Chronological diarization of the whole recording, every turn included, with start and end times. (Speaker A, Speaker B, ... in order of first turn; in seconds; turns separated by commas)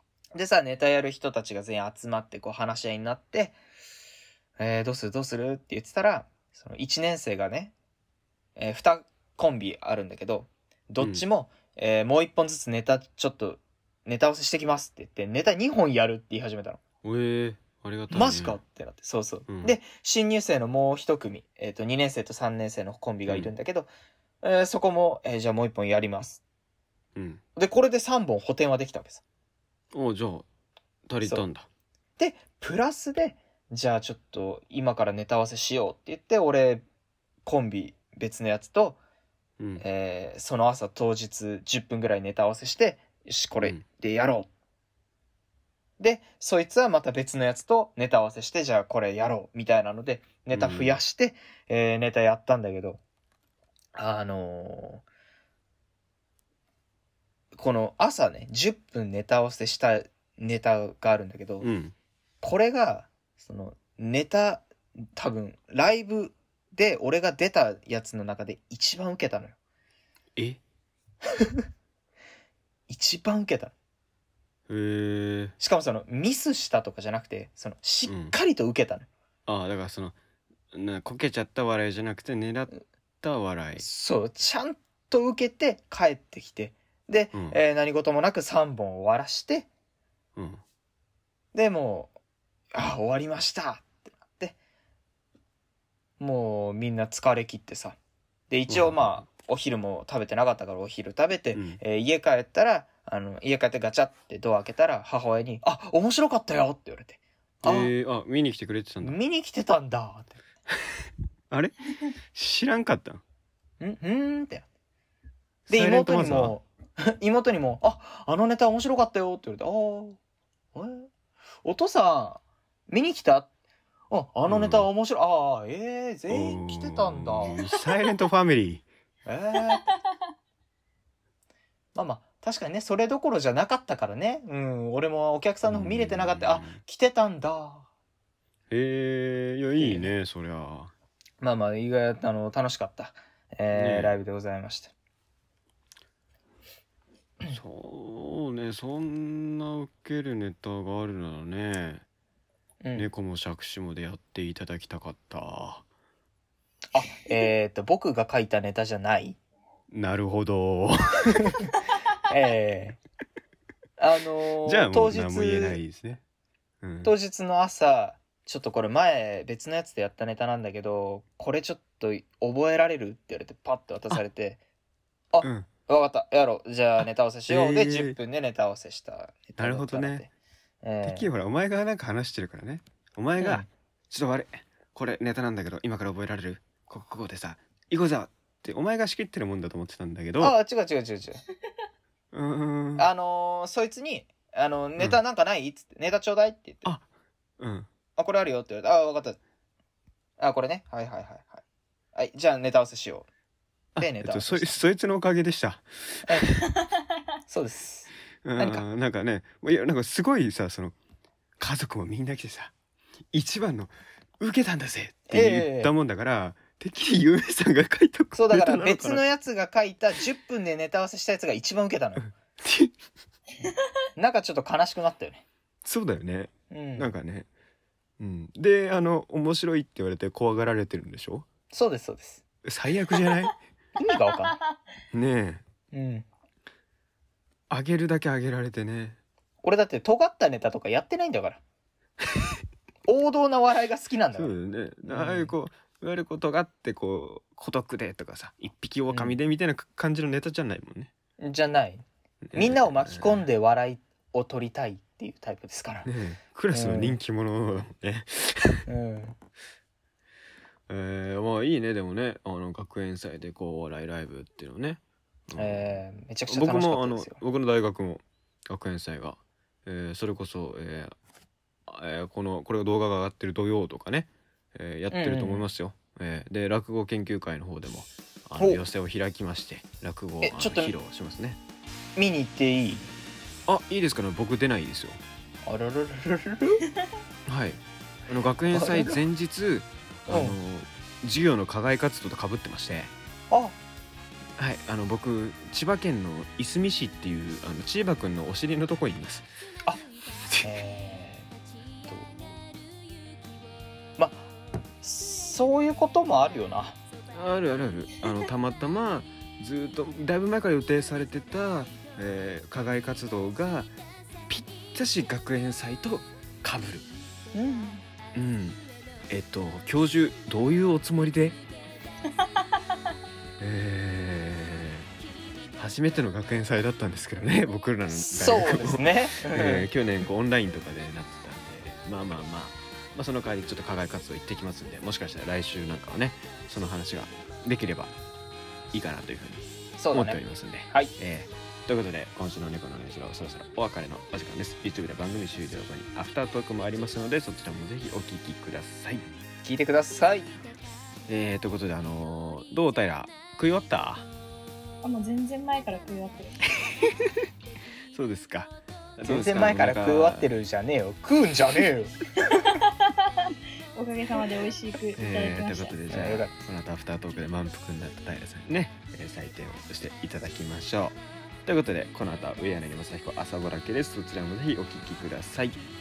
Speaker A: 0.3-3.6, Speaker A: 4.6-7.7, Speaker A: 8.6-16.8, Speaker B: 11.0-11.2, Speaker B: 17.0-18.6, Speaker A: 18.1-23.9, Speaker B: 19.5-19.8, Speaker B: 23.3-23.5, Speaker A: 24.4-26.4, Speaker B: 27.1-27.4, Speaker A: 27.6-29.2, Speaker B: 29.9-30.5, Speaker B: 31.1-31.7, Speaker A: 32.2-36.8, Speaker A: 37.5-39.0, Speaker A: 39.8-44.5, Speaker A: 46.0-53.0, Speaker B: 50.5-51.0, Speaker A: 54.0-55.0, Speaker A: 57.5-61.7, Speaker B: 61.6-61.9, Speaker A: 62.4-69.5, Speaker A: 72.9-73.7, Speaker B: 74.7-75.6, Speaker A: 75.6-79.1, Speaker B: 78.1-78.3, Speaker B: 79.5-80.2, Speaker B: 80.7-83.9, Speaker A: 83.8-89.7, Speaker B: 87.3-87.6, Speaker B: 90.4-90.6, Speaker A: 91.5-92.1, Speaker A: 92.7-94.6, Speaker A: 96.2-98.0, Speaker A: 98.5-107.9, Speaker B: 98.7-99.2, Speaker B: 101.5-101.8, Speaker B: 107.6-109.2, Speaker A: 109.0-110.4, Speaker B: 110.8-111.8, Speaker B: 112.3-113.2, Speaker A: 113.8-114.7, Speaker B: 115.7-116.5, Speaker A: 115.7-120.2, Speaker A: 120.8-121.1, Speaker A: 121.6-123.5, Speaker A: 124.1-127.5, Speaker B: 124.5-124.9, Speaker B: 126.3-128.8, Speaker A: 129.3-129.9, Speaker A: 131.9-137.9, Speaker B: 135.7-136.8, Speaker B: 138.7-140.9, Speaker A: 139.8-140.1, Speaker A: 141.4-144.9, Speaker B: 143.7-144.2, Speaker B: 147.5-152.0, Speaker A: 152.8-153.1, Speaker B: 152.9-155.8, Speaker A: 156.9-159.4, Speaker B: 159.9-161.6, Speaker A: 162.3-163.0, Speaker A: 164.0-165.8, Speaker B: 164.7-166.2, Speaker B: 166.8-167.1, Speaker A: 167.0-174.6, Speaker A: 175.3-180.3, Speaker B: 175.4-175.7, Speaker B: 177.0-178.2, Speaker B: 179.6-180.3, Speaker A: 180.8-181.3, Speaker B: 181.0-190.6, Speaker A: 183.4-183.7, Speaker A: 190.4-191.4, Speaker B: 192.3-193.1, Speaker A: 193.0-196.9, Speaker B: 197.6-197.9, Speaker A: 198.2-199.4, Speaker A: 200.4-201.6, Speaker A: 202.2-203.3, Speaker B: 203.9-206.6, Speaker A: 204.0-204.8, Speaker A: 207.5-208.8, Speaker B: 208.4-210.9, Speaker B: 211.6-212.7, Speaker B: 213.3-219.2, Speaker A: 215.3-215.9, Speaker A: 218.3-222.3, Speaker B: 222.6-222.9, Speaker A: 224.2-225.4, Speaker B: 225.8-227.5, Speaker A: 226.7-227.1, Speaker B: 228.2-231.5, Speaker A: 231.7-232.4, Speaker B: 232.6-233.6, Speaker A: 234.0-234.6, Speaker B: 235.1-235.6, Speaker A: 235.9-236.3, Speaker B: 237.7-239.2, Speaker A: 239.6-241.6, Speaker B: 242.3-242.6, Speaker A: 243.1-244.5, Speaker B: 244.3-251.1, Speaker A: 245.0-245.5, Speaker A: 249.1-249.4, Speaker A: 251.4-256.1, Speaker B: 252.5-253.4, Speaker B: 256.1-258.9, Speaker A: 256.7-257.2, Speaker A: 258.9-259.4, Speaker B: 260.9-271.1, Speaker A: 265.6-267.4, Speaker B: 271.9-281.6, Speaker A: 275.1-275.7, Speaker A: 280.4-280.9, Speaker A: 282.2-283.1, Speaker B: 283.7-285.2, Speaker A: 285.7-286.8, Speaker B: 287.5-293.1, Speaker A: 288.7-289.2, Speaker A: 290.3-290.6, Speaker A: 293.5-293.8, Speaker B: 294.6-299.5, Speaker B: 300.5-300.7, Speaker A: 300.6-301.5, Speaker A: 302.1-302.3, Speaker A: 304.2-304.5, Speaker A: 305.0-307.0, Speaker B: 307.3-313.9, Speaker B: 314.5-317.1, Speaker A: 317.5-318.0, Speaker B: 318.4-321.6, Speaker C: 322.4-322.8, Speaker B: 323.6-325.1, Speaker B: 325.8-338.1, Speaker A: 328.1-329.9, Speaker B: 338.9-349.4, Speaker A: 340.0-341.1, Speaker A: 349.6-350.5, Speaker B: 351.3-354.3, Speaker C: 355.0-356.6, Speaker B: 357.0-357.3, Speaker B: 358.1-360.5, Speaker A: 359.2-362.6, Speaker C: 362.5-366.0, Speaker B: 365.2-375.8, Speaker A: 366.1-366.5